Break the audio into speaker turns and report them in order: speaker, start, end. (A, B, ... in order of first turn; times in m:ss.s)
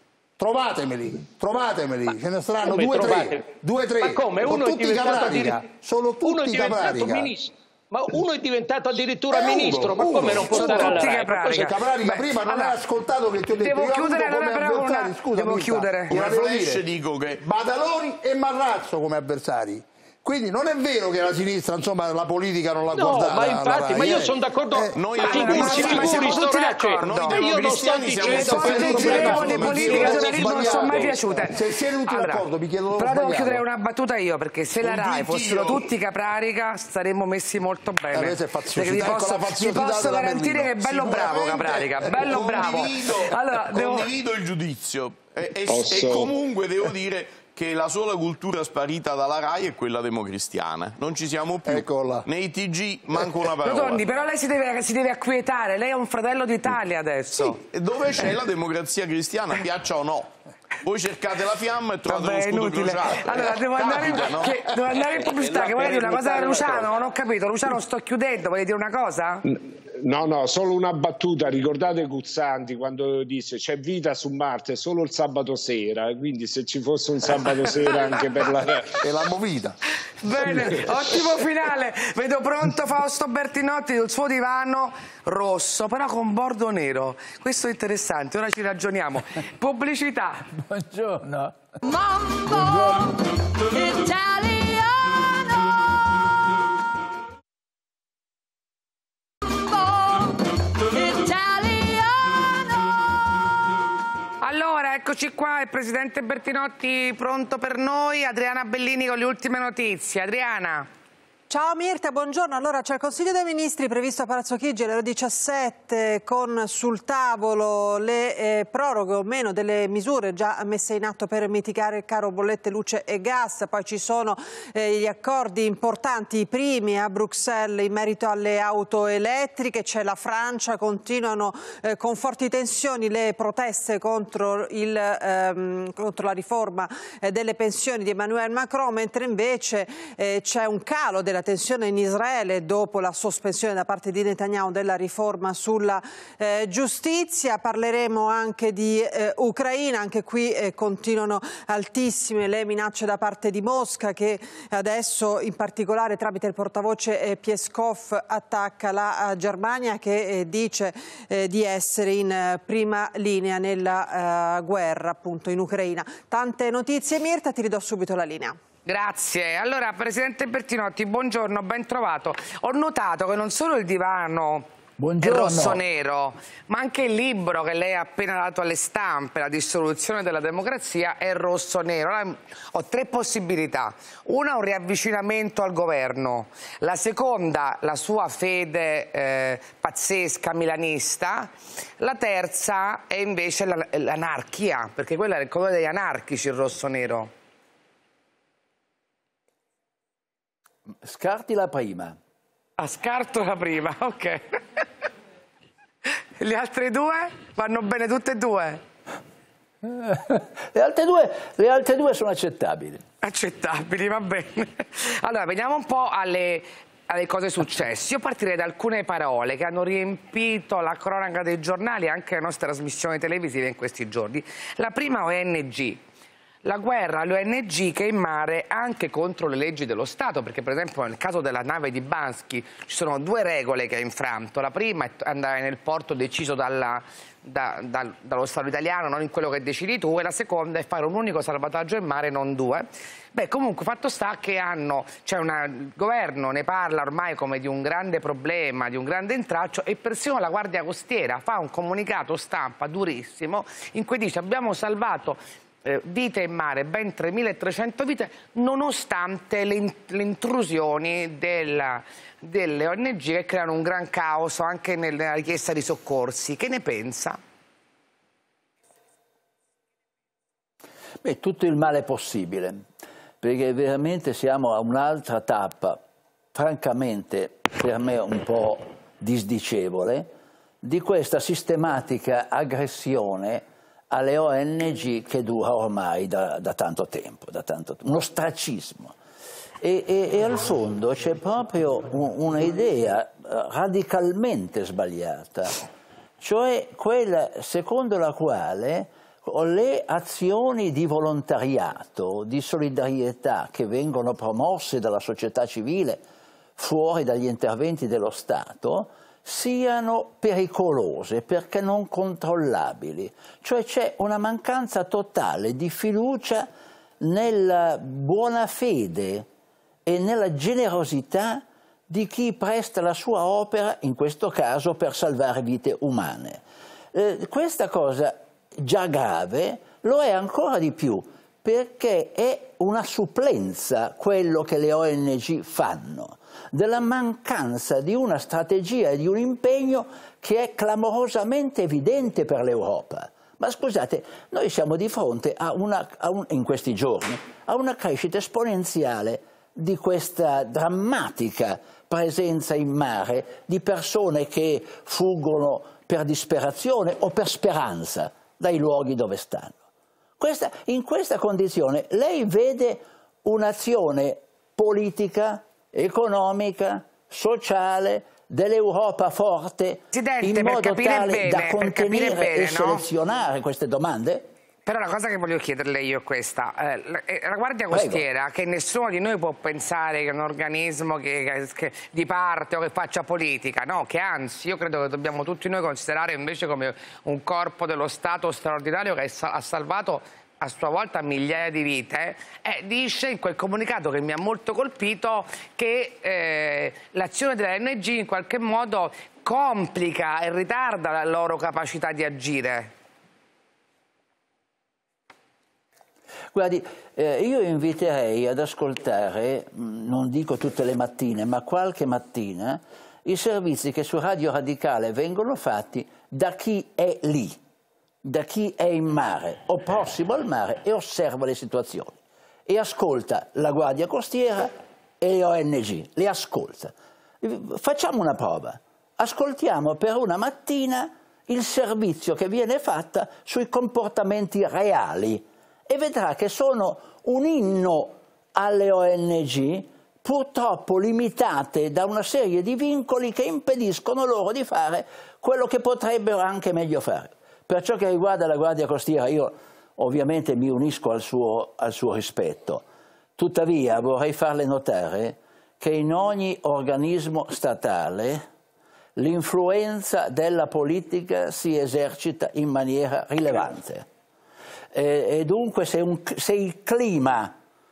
0:00.4-0:07.3 A
0:02.6-0:05.7 B
0:06.2-0:11.7 B
0:09.3-0:16.8 A
0:10.5-0:12.8 C
0:13.6-0:16.1 C
0:16.1-0:17.4 D
0:17.4-0:24.9 A
0:22.9-0:30.8 B
0:24.9-0:30.3 D
0:25.2-0:27.4 C
0:28.3-0:31.5 C
0:28.5-0:33.6 A
0:32.1-0:32.4 C
0:33.0-0:44.1 C
0:34.9-0:35.8 D
0:38.1-0:43.2 A
0:42.2-0:54.0 D
0:45.7-0:46.3 E
0:51.6-0:52.2 A
0:53.6-0:57.6 C
0:57.5-1:00.3 D
1:00.8-1:05.0 D
1:02.1-1:09.4 C
1:05.1-1:06.9 B
1:10.0-1:18.9 E
1:18.4-1:19.7 A
1:20.2-1:30.5 C
1:20.4-1:20.8 A
1:31.8-1:35.8 F
1:39.5-1:43.2 F
1:44.4-1:50.9 C
1:51.5-2:48.6 G
2:48.8-2:54.7 C
2:55.0-2:55.8 H
2:55.2-3:17.3 C
3:21.0-3:22.2 H
3:22.8-3:24.8 C
3:26.4-3:28.8 C
3:29.8-3:33.0 H
3:33.2-3:46.0 C
3:46.6-4:27.4 C
4:31.2-4:32.8 H
4:33.4-4:36.0 H
4:36.5-4:40.3 H
4:40.8-4:49.1 H
4:49.8-4:55.8 H
4:56.4-5:06.2 H
5:06.8-5:16.7 H
5:17.2-5:19.4 H
5:20.0-5:26.6 H
5:27.1-5:59.8 H
6:00.4-6:14.4 H
6:10.1-6:13.0 C
6:14.8-6:42.9 C
6:17.9-6:18.2 H
6:46.5-6:57.6 H
6:58.2-7:32.8 H
7:33.4-7:38.4 H
7:39.2-7:44.0 H
7:44.9-7:47.5 H